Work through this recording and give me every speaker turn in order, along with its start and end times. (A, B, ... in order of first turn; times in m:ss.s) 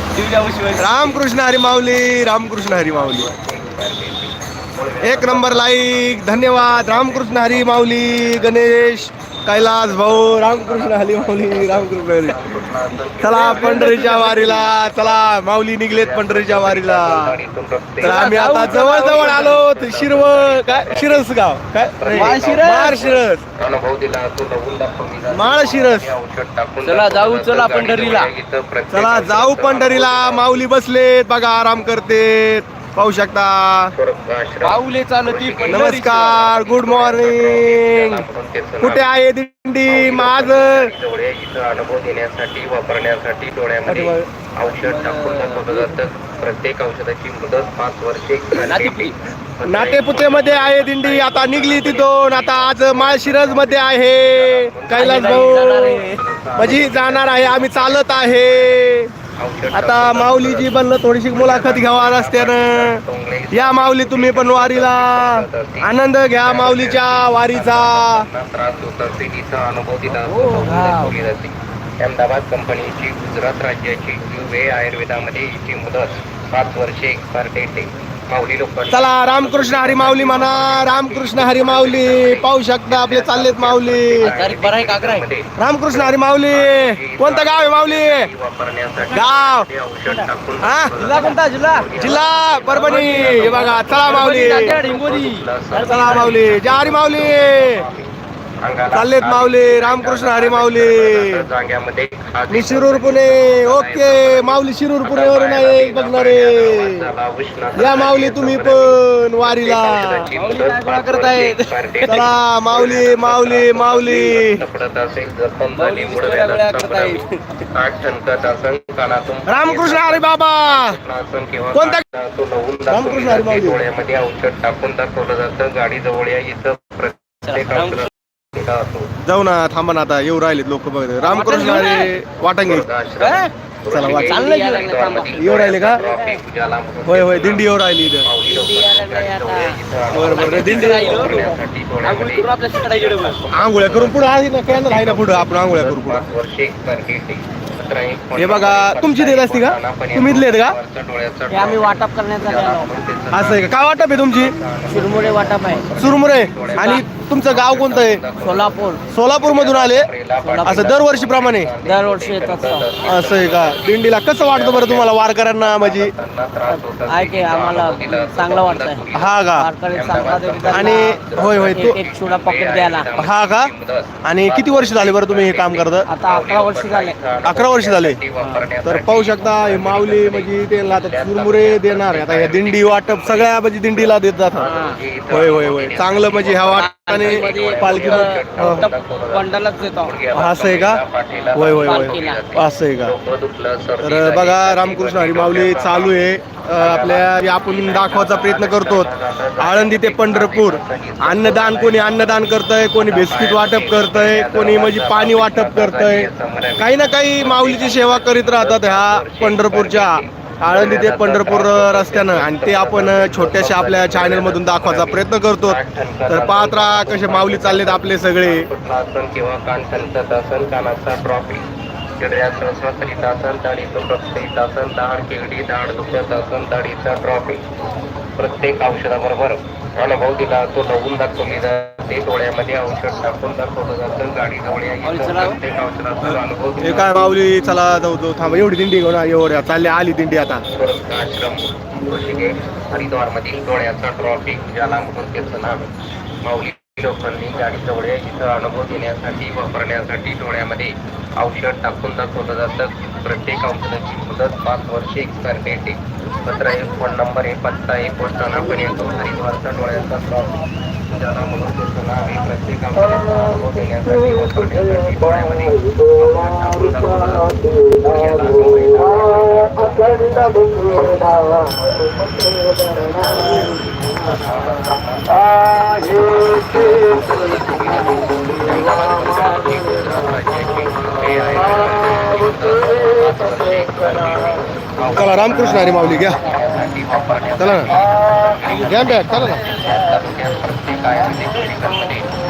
0:00.1-0:01.2 A
0:00.8-0:03.3 B
0:02.7-0:08.8 C
0:05.0-0:12.4 B
0:09.5-0:14.9 C
0:13.2-0:17.4 B
0:13.4-0:14.4 A
0:15.9-0:21.3 C
0:18.0-0:19.6 A
0:18.0-0:23.4 B
0:22.0-0:30.5 C
0:22.1-0:23.0 A
0:25.3-0:26.1 B
0:26.8-0:28.3 A
0:28.9-0:33.9 B
0:33.9-0:39.1 C
0:34.6-0:36.4 A
0:35.7-0:38.2 B
0:38.8-0:40.9 B
0:39.8-0:58.8 C
0:43.9-0:44.3 B
0:44.8-0:45.9 A
0:48.6-0:49.1 A
0:49.6-0:56.0 B
0:54.9-0:56.2 A
0:56.6-0:59.1 B
0:59.4-2:09.1 C
0:59.7-1:03.0 B
1:03.5-1:08.3 B
1:10.1-1:11.1 A
1:18.9-1:24.3 B
1:24.2-1:25.2 A
1:25.6-1:28.3 B
1:29.1-1:29.7 B
1:30.6-1:31.0 B
1:31.0-1:32.2 A
1:31.9-1:34.8 B
1:32.8-1:36.4 A
1:35.8-1:37.8 B
1:38.9-1:41.4 B
1:42.5-1:47.0 B
1:47.8-1:50.3 B
1:50.3-1:52.3 A
1:52.1-1:54.6 B
1:55.8-1:57.6 A
1:59.5-2:01.0 B
2:01.7-2:02.0 B
2:02.9-2:03.8 B
2:07.4-2:08.1 A
2:09.2-2:12.9 B
2:11.2-2:12.1 A
2:12.6-3:22.4 C
2:13.2-2:13.5 A
2:13.9-2:14.4 B
2:14.0-2:16.2 A
2:15.2-2:16.0 B
2:17.0-2:18.3 B
2:18.4-2:23.4 A
2:20.1-2:21.4 B
2:23.5-2:26.2 B
2:28.4-2:30.7 B
2:31.5-2:32.9 A
2:33.3-2:34.5 B
2:34.9-2:35.8 A
2:36.0-2:38.2 B
2:36.7-2:37.1 A
2:38.4-2:39.0 A
2:39.1-2:40.1 B
2:40.4-2:41.1 A
2:40.6-2:41.7 B
2:41.8-2:42.8 A
2:43.0-2:46.1 B
2:46.7-2:53.1 A
2:49.1-2:49.7 B
2:50.7-2:52.0 B
2:53.2-2:53.7 B
2:54.2-2:56.1 B
2:56.1-2:57.2 A
2:57.4-2:58.2 B
2:58.8-3:04.7 B
3:04.6-3:05.0 A
3:05.3-3:08.9 B
3:06.7-3:10.1 A
3:10.3-3:11.0 B
3:11.5-3:13.1 B
3:11.5-3:12.4 A
3:14.0-3:19.1 B
3:19.6-3:38.7 B
3:23.0-3:41.6 C
3:42.2-3:47.6 C
3:48.4-3:57.2 C
3:55.0-3:55.6 A
3:56.8-4:00.6 B
4:00.7-4:05.9 C
4:06.4-4:31.4 C
4:33.2-4:52.2 C
4:45.1-4:46.4 B
4:47.6-4:47.9 B
4:48.8-4:49.6 B